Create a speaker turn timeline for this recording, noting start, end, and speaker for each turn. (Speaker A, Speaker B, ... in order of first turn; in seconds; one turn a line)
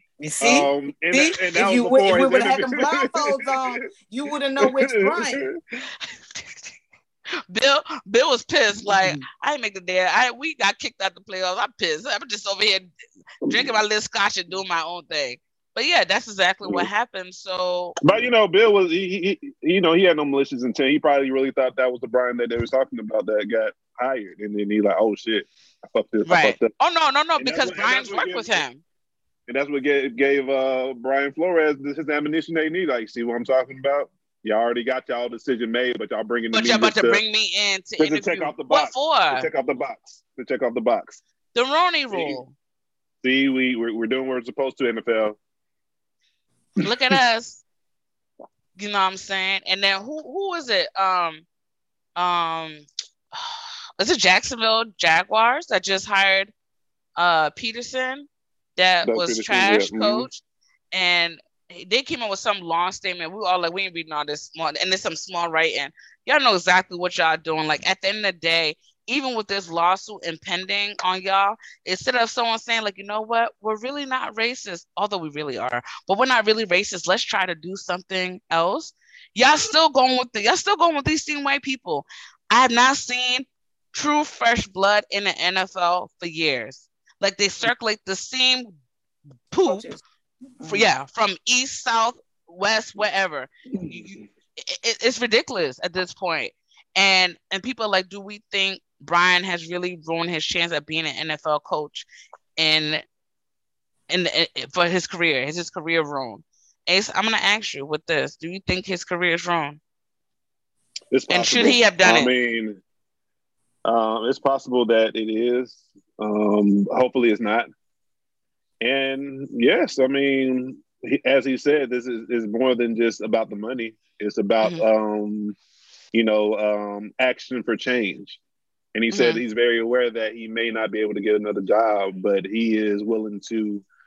Speaker A: 0.2-5.4
Speaker B: 0.4-3.2
Speaker B: 4.6-5.5
Speaker C: 6.3-6.7
Speaker C: 7.5-12.9
Speaker B: 8.8-9.2
Speaker C: 13.4-18.0
Speaker B: 16.6-16.9
Speaker B: 18.0-26.7
Speaker C: 26.2-28.8
Speaker B: 27.4-28.6
Speaker B: 29.5-37.2
Speaker C: 36.5-39.5
Speaker B: 38.0-41.2
Speaker C: 41.5-42.5
Speaker B: 42.1-42.4
Speaker B: 43.2-45.4
Speaker C: 46.8-47.6
Speaker C: 48.8-51.4
Speaker C: 52.1-56.5
Speaker C: 57.1-88.7
Speaker B: 59.0-60.3
Speaker C: 89.5-89.8
Speaker A: 89.6-90.0
Speaker A: 90.6-90.8
Speaker C: 90.7-102.1
Speaker B: 93.7-94.2
Speaker C: 102.6-103.0
Speaker C: 104.1-109.8
Speaker B: 111.1-112.8
Speaker C: 111.3-112.3
Speaker B: 113.8-117.7
Speaker B: 118.8-125.5
Speaker B: 126.1-128.4
Speaker B: 128.9-133.8
Speaker C: 129.1-129.4